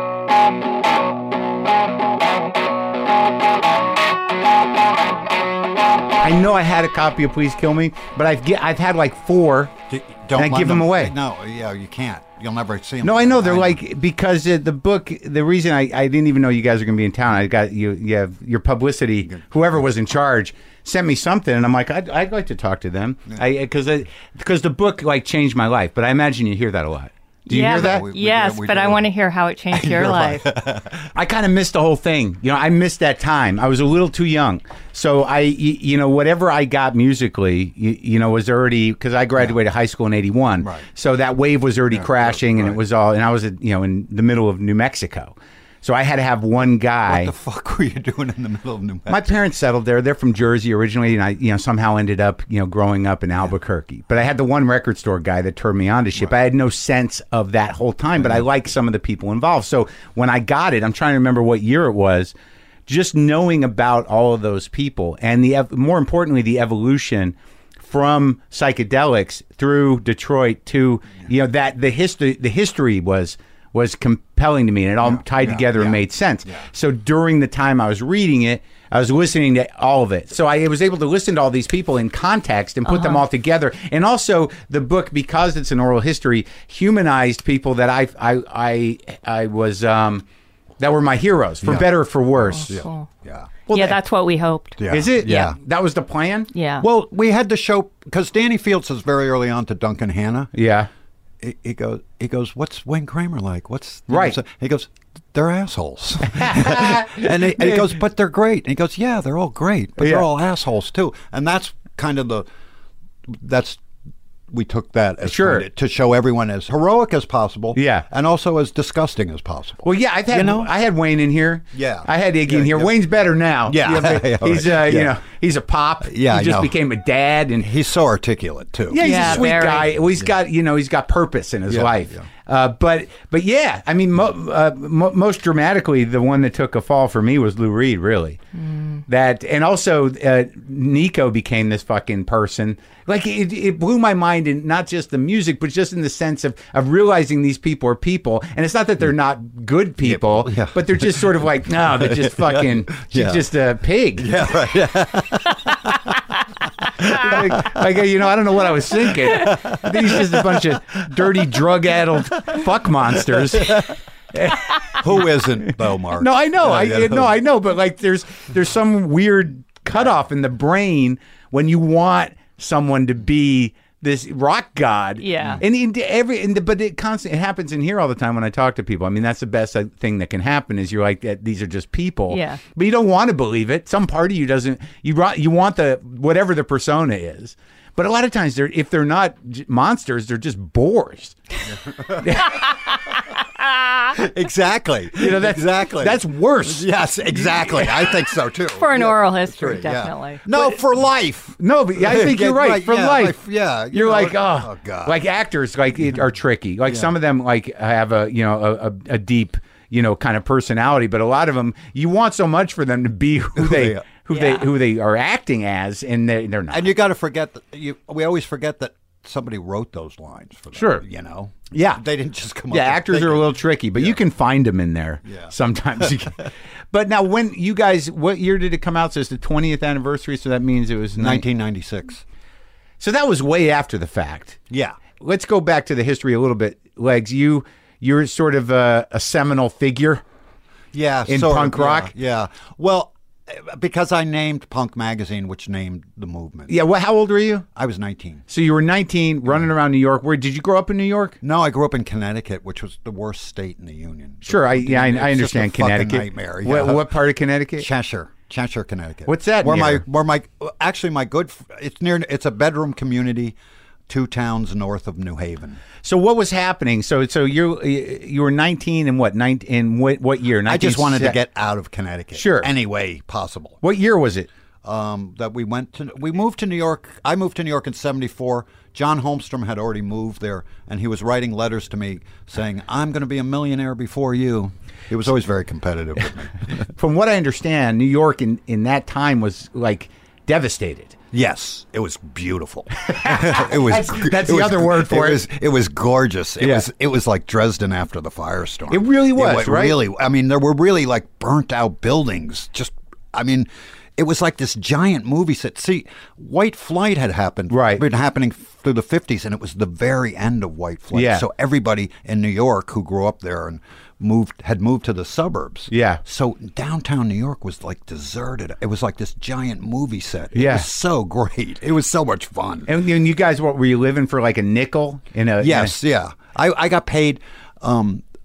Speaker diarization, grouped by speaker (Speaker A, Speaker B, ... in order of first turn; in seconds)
Speaker A: 6.2-9.7, 10.3-11.2, 13.0-28.1, 31.1-47.3, 49.1-62.3, 62.9-90.2, 90.8-92.8, 93.7-94.0, 94.9-96.5, 100.5-100.9, 104.1-104.4, 106.3-108.0, 110.0-110.3, 115.2-115.7, 117.8-118.1, 119.8-127.7, 128.9-138.4, 139.1-154.5, 157.0-191.4, 192.2-192.8, 195.2-198.2, 200.5-200.8, 201.6-203.4, 203.9-216.9, 220.8-221.0, 221.7-222.0, 222.7-231.4, 233.0-234.6, 235.2-240.2, 241.3-242.1, 246.7-247.7, 248.5-251.4, 254.5-257.9, 259.3-260.0, 266.0-271.4, 272.3-272.7, 273.8-274.5, 286.9-291.2, 293.1-295.4, 296.6-296.9, 298.9-300.0, 307.7-308.0, 311.1-311.5, 315.9-316.2, 320.5-320.9, 322.9-326.0
Speaker B: 9.9-13.8, 27.5-29.1, 29.7-31.1, 40.6-40.9, 41.9-42.8, 47.1-49.3, 75.0-76.6, 92.5-93.5, 94.8-95.6, 96.8-100.5, 101.4-112.5, 113.3-113.8, 114.5-120.7, 121.7-122.9, 123.7-125.1, 126.1-126.7, 127.6-130.3, 131.7-132.2, 150.0-153.4, 154.2-156.2, 156.9-157.8, 159.0-161.6, 163.6-163.9, 164.9-167.3, 191.7-192.6, 194.1-205.2, 206.9-207.1, 213.6-214.1, 216.7-223.5, 225.3-225.5, 231.2-232.2, 234.7-235.0, 240.9-246.8, 247.8-248.4, 251.4-257.1, 257.8-263.6, 264.1-265.8, 270.7-273.8, 274.8-286.9, 291.3-322.9, 325.6-328.2
Speaker C: 27.5-30.4, 82.9-83.2, 92.5-93.1, 93.7-95.5, 96.5-96.9, 129.0-129.9, 175.2-175.6, 182.3-182.6, 198.8-200.4, 214.3-214.7